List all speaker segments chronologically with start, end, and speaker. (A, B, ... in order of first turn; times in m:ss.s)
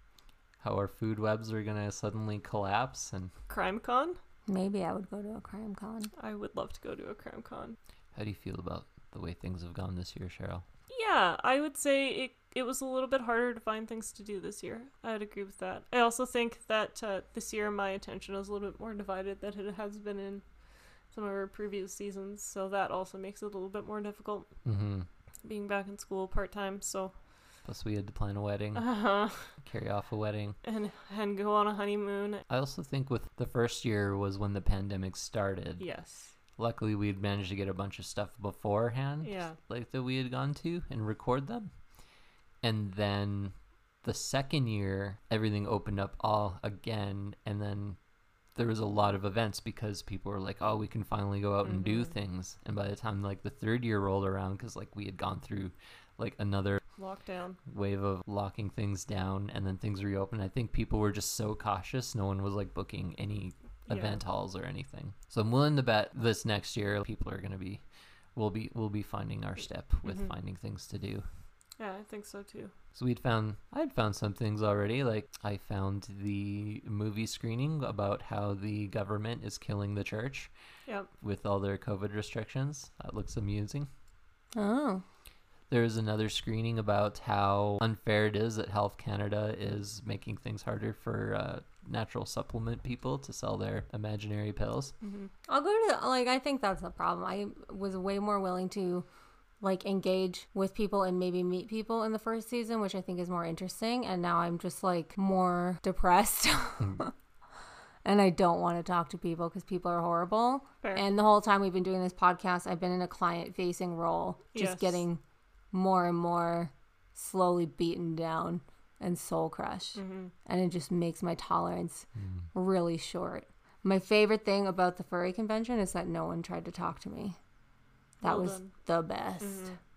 0:00.6-0:03.3 A
0:03.5-0:04.2 B
0:04.5-0:06.1 C
0:06.2-0:07.8 B
0:08.1-0:10.6 A
0:10.9-0:20.4 B
0:21.1-0:24.5 B
0:24.6-0:25.1 A
0:25.4-0:27.1 B
0:27.6-0:28.8 A
0:28.7-0:29.5 B
0:29.6-0:30.6 A
0:30.6-0:32.4 B
0:32.5-0:35.8 A
0:35.8-0:36.3 B
0:36.6-0:41.7 A
0:39.2-0:39.6 B
0:42.6-0:48.0 A
0:48.5-0:56.8 A
0:51.6-0:52.1 B
0:57.0-0:57.6 B
0:57.7-1:07.8 A
1:03.9-1:04.2 B
1:08.3-1:11.2 A
1:11.8-1:12.7 B
1:12.9-1:20.5 A
1:21.2-1:23.9 A
1:24.5-1:25.0 C
1:25.7-1:34.9 A
1:35.0-1:35.3 B
1:35.5-1:39.0 C
1:39.6-1:47.1 C
1:48.0-1:55.2 C
1:54.5-1:55.0 B
1:55.7-2:07.4 C
2:00.0-2:00.3 B
2:02.2-2:02.4 A
2:08.2-2:09.7 C
2:08.2-2:08.7 B
2:09.4-2:09.7 B